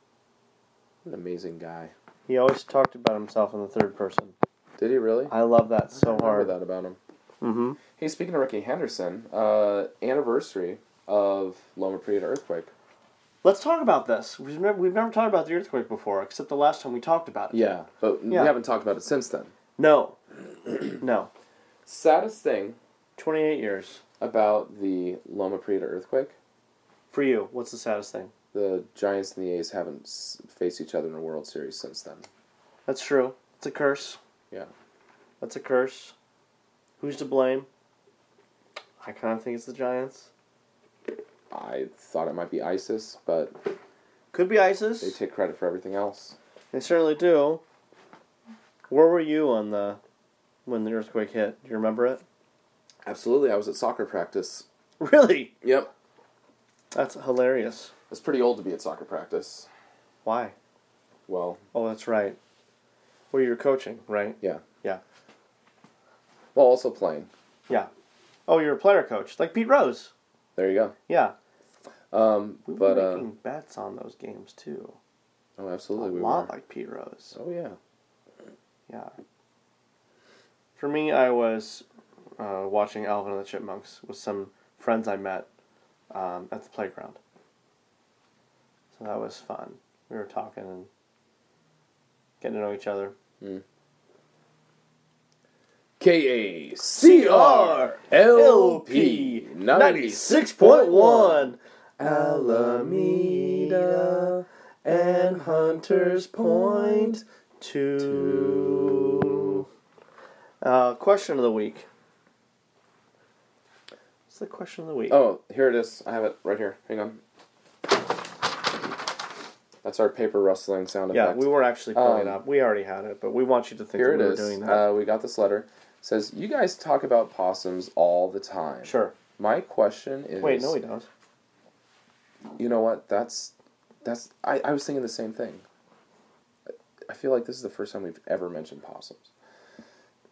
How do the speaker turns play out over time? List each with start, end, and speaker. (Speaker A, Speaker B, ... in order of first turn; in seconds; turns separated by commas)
Speaker A: 1.0-1.9, Speaker B: 2.3-4.3, Speaker A: 4.8-5.3, Speaker B: 5.3-6.5, Speaker A: 5.9-7.0, Speaker B: 7.4-7.8, Speaker A: 8.0-12.7, Speaker B: 13.4-17.6, Speaker A: 17.5-19.5, Speaker B: 19.8-20.2, Speaker B: 21.0-21.3, Speaker A: 21.9-22.8, Speaker B: 23.2-24.0, Speaker A: 24.2-26.3, Speaker B: 27.1-28.3, Speaker A: 28.5-32.2, Speaker B: 32.9-34.2, Speaker B: 35.4-36.1, Speaker B: 37.0-37.7, Speaker B: 39.0-40.3, Speaker A: 41.5-43.5, Speaker B: 44.3-45.2, Speaker A: 45.0-46.4, Speaker B: 46.7-47.6, Speaker B: 48.9-50.0, Speaker B: 50.6-52.2, Speaker A: 53.0-54.6, Speaker B: 55.0-55.5, Speaker A: 55.6-55.9, Speaker B: 56.9-57.9, Speaker A: 58.1-59.7, Speaker B: 60.2-60.5, Speaker A: 61.3-61.6, Speaker B: 61.7-62.4, Speaker B: 63.3-65.0, Speaker A: 66.5-67.3, Speaker B: 68.5-70.1, Speaker A: 70.6-70.9, Speaker B: 71.1-71.3, Speaker A: 72.1-73.3, Speaker B: 72.7-75.0, Speaker A: 75.6-76.5, Speaker B: 76.0-77.4, Speaker A: 77.3-77.8, Speaker B: 80.8-81.8, Speaker B: 82.4-85.5, Speaker B: 86.1-87.2, Speaker B: 88.9-90.9, Speaker B: 92.4-93.2, Speaker A: 96.0-107.2, Speaker B: 96.9-104.3, Speaker B: 104.9-109.6, Speaker A: 108.0-109.6, Speaker B: 110.6-111.9, Speaker B: 114.3-115.2, Speaker A: 115.1-117.2, Speaker A: 119.8-122.4, Speaker B: 121.1-124.9, Speaker A: 124.0-130.8, Speaker B: 128.8-129.1, Speaker B: 130.4-131.1, Speaker A: 132.6-135.6, Speaker A: 137.1-139.3